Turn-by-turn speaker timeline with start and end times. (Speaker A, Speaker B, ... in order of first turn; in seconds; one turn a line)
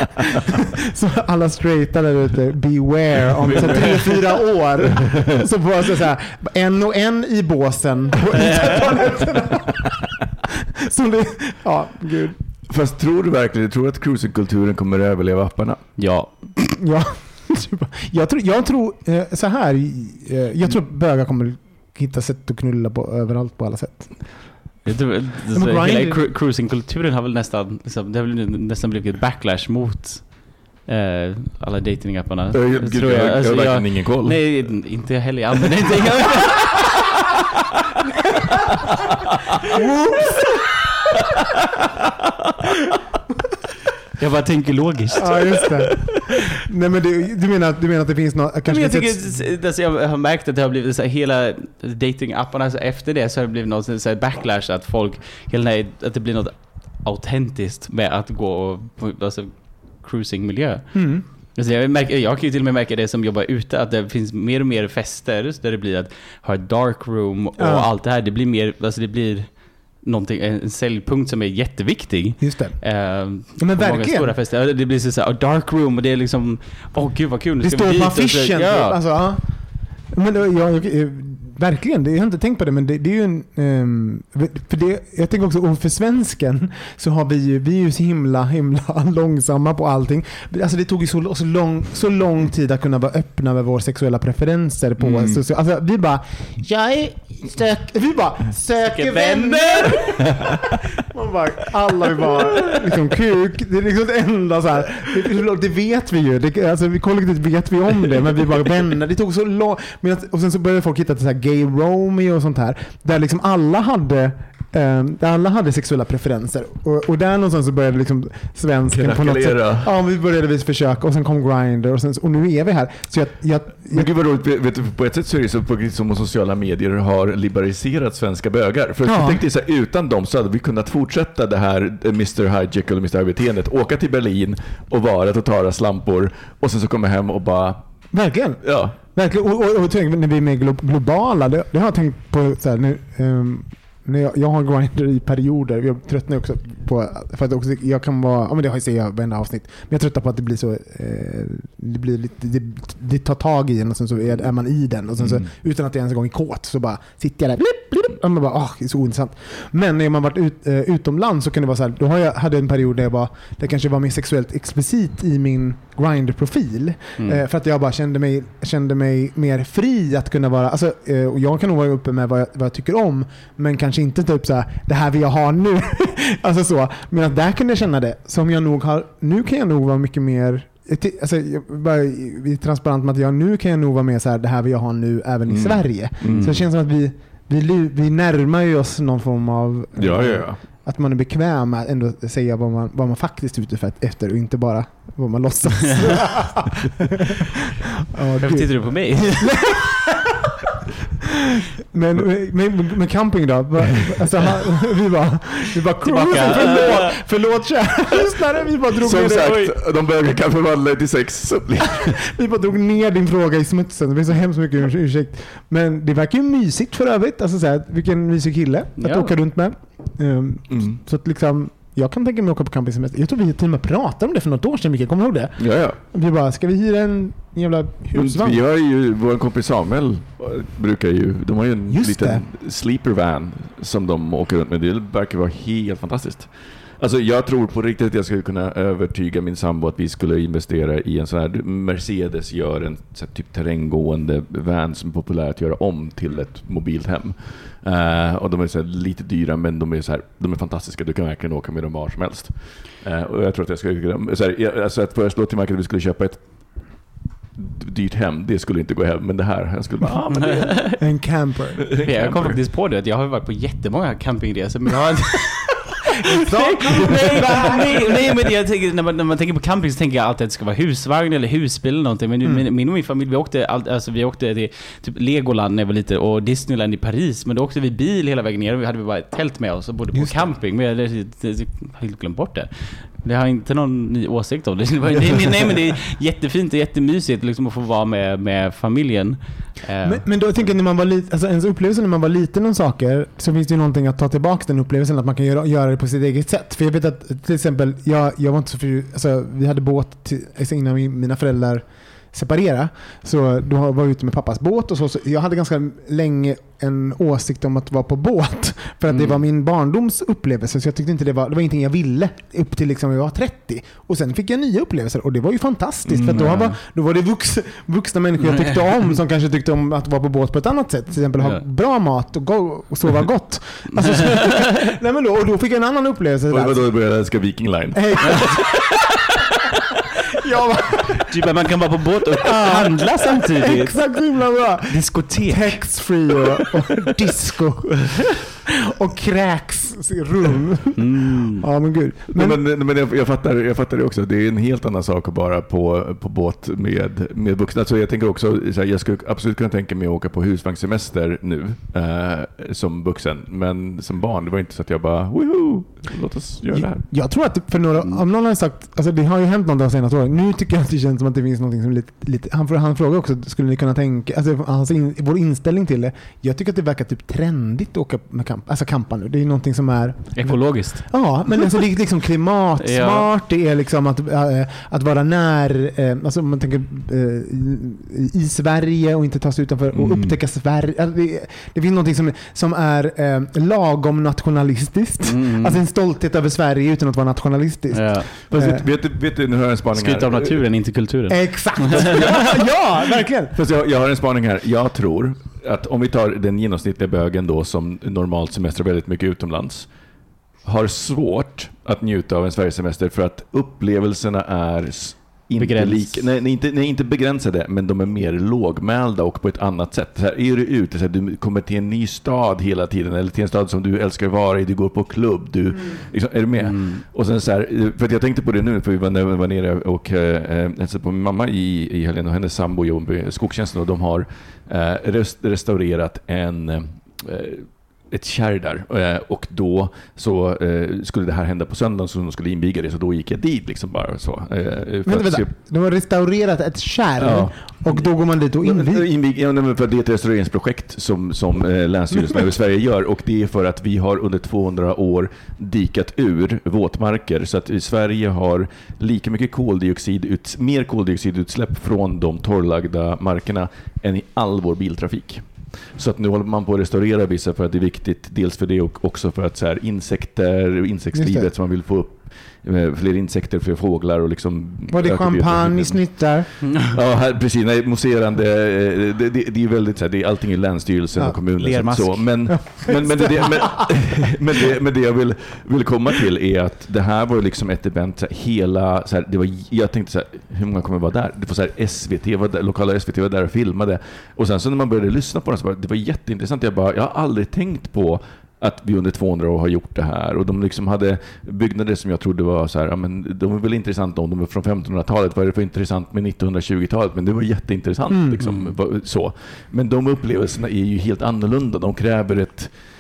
Speaker A: 0.8-10.2
Speaker B: 3.5-3.8
Speaker A: 10.8-12.4
Speaker C: 12.7-16.0
Speaker B: 16.0-16.6
Speaker A: 16.8-24.8
Speaker B: 24.9-36.8
Speaker A: 25.5-26.3
Speaker C: 32.5-34.7
Speaker A: 39.7-40.6
Speaker B: 44.2-45.7
Speaker A: 45.2-49.4
Speaker B: 48.7-79.0
Speaker A: 60.9-61.2
Speaker A: 67.6-67.9
Speaker A: 72.4-74.3
Speaker A: 77.6-100.5
Speaker C: 95.0-95.4
Speaker B: 98.8-100.5
Speaker A: 101.0-124.1
Speaker C: 118.9-119.9
Speaker C: 123.9-137.9
Speaker A: 129.0-129.4
Speaker A: 138.1-197.4
Speaker C: 138.6-139.0
Speaker C: 155.2-155.5
Speaker B: 167.2-167.4
Speaker C: 185.5-186.6
Speaker B: 186.3-186.6
Speaker C: 190.0-190.6
Speaker A: 198.1-200.2
Speaker B: 198.4-199.9
Speaker A: 201.9-209.6
Speaker B: 206.0-207.2
Speaker C: 209.0-212.2
Speaker B: 209.2-209.7
Speaker A: 212.3-228.6
Speaker B: 219.0-219.3
Speaker C: 220.7-221.0
Speaker C: 225.6-226.0
Speaker C: 228.1-261.0
Speaker A: 231.9-232.4
Speaker B: 260.4-261.0
Speaker A: 261.0-261.9
Speaker C: 261.9-262.6
Speaker B: 262.0-265.7
Speaker A: 266.4-268.2
Speaker B: 266.5-290.3
Speaker A: 280.1-280.5
Speaker A: 290.0-327.1
Speaker B: 309.1-309.4
Speaker C: 316.1-316.5
Speaker B: 316.3-316.8
Speaker B: 318.5-318.8
Speaker B: 321.4-321.6
Speaker B: 323.9-324.5
Speaker C: 326.5-329.0
Speaker A: 327.9-328.8
Speaker A: 330.4-331.2
Speaker B: 331.3-334.0
Speaker A: 332.4-342.6
Speaker B: 334.9-336.2
Speaker B: 341.0-341.6
Speaker C: 342.3-357.0
Speaker A: 356.7-388.9
Speaker B: 370.4-371.4
Speaker B: 372.8-373.3
Speaker C: 379.9-380.4
Speaker B: 385.2-385.8
Speaker B: 387.9-388.3
Speaker C: 388.4-390.7
Speaker B: 389.9-392.1
Speaker A: 391.3-393.6
Speaker C: 393.5-399.9
Speaker C: 400.6-435.5
Speaker B: 405.6-406.3
Speaker B: 416.6-417.0
Speaker A: 435.1-439.1
Speaker C: 437.2-502.7
Speaker A: 461.1-461.5
Speaker A: 464.9-466.5
Speaker A: 471.2-471.4
Speaker B: 471.6-472.8
Speaker A: 472.5-474.1
Speaker A: 498.1-498.4
Speaker B: 498.4-498.7